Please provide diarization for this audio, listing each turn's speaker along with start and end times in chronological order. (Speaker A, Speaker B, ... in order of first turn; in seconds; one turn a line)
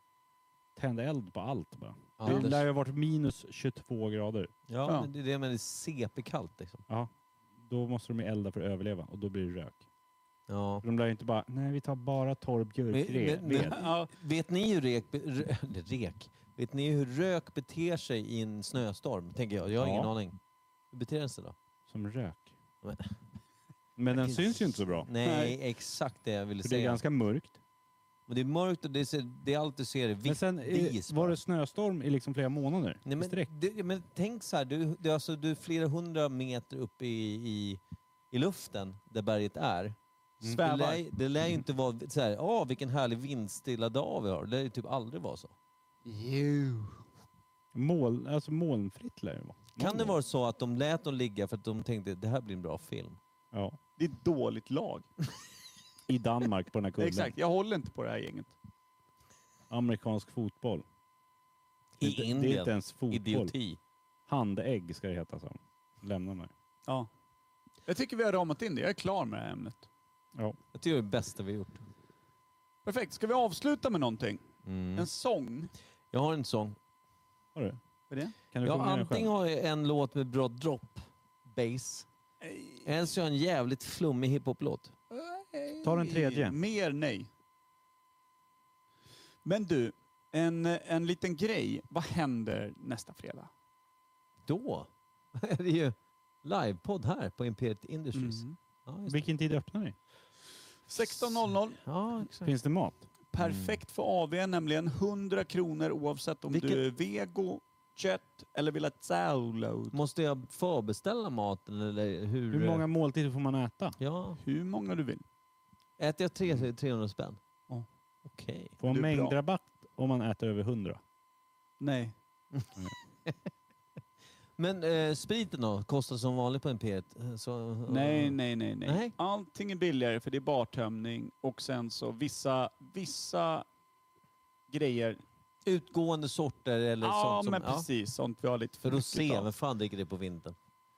Speaker A: 0.8-4.5
Speaker B: 2.2-2.6
Speaker B: 4.7-6.8
Speaker A: 7.6-9.8
Speaker B: 10.5-10.8
Speaker A: 10.8-13.8
Speaker B: 12.9-20.4
Speaker C: 13.5-14.1
Speaker A: 19.8-20.1
Speaker B: 20.9-21.6
Speaker A: 21.9-22.6
Speaker B: 22.8-23.1
Speaker A: 24.0-25.1
Speaker B: 24.1-27.0
Speaker C: 25.2-25.6
Speaker A: 26.6-27.6
Speaker B: 28.3-31.4
Speaker A: 30.2-33.5
Speaker B: 33.0-45.5
Speaker C: 40.4-41.0
Speaker C: 46.1-47.0
Speaker A: 47.7-50.2
Speaker B: 49.8-53.2
Speaker A: 53.5-53.8
Speaker C: 54.0-55.1
Speaker A: 56.1-57.3
Speaker C: 57.0-58.5
Speaker A: 59.7-60.8
Speaker B: 62.0-63.8
Speaker A: 62.0-63.5
Speaker A: 64.3-66.5
Speaker C: 67.9-69.9
Speaker B: 70.7-71.8
Speaker C: 72.8-74.4
Speaker B: 74.6-75.1
Speaker C: 75.0-75.7
Speaker B: 76.1-76.8
Speaker A: 77.5-77.8
Speaker A: 78.5-79.3
Speaker B: 78.6-82.1
Speaker C: 82.4-82.9
Speaker B: 82.8-84.9
Speaker C: 85.1-87.3
Speaker A: 85.8-86.5
Speaker C: 89.4-93.5
Speaker B: 94.5-99.2
Speaker C: 98.1-98.6
Speaker A: 99.1-100.0
Speaker C: 100.9-101.8
Speaker B: 101.8-102.5
Speaker A: 102.4-103.0
Speaker C: 103.3-110.0
Speaker B: 103.4-103.8
Speaker B: 106.5-106.8
Speaker B: 109.9-112.9
Speaker A: 112.5-114.0
Speaker B: 114.0-114.4
Speaker C: 114.4-115.2
Speaker B: 116.0-117.4
Speaker B: 118.2-118.8
Speaker A: 118.8-121.0
Speaker C: 118.8-119.3
Speaker C: 121.8-122.1
Speaker B: 122.5-123.5
Speaker B: 124.6-129.1
Speaker C: 127.9-133.7
Speaker C: 134.7-135.2
Speaker B: 135.6-137.9
Speaker C: 137.0-139.5
Speaker B: 138.8-140.6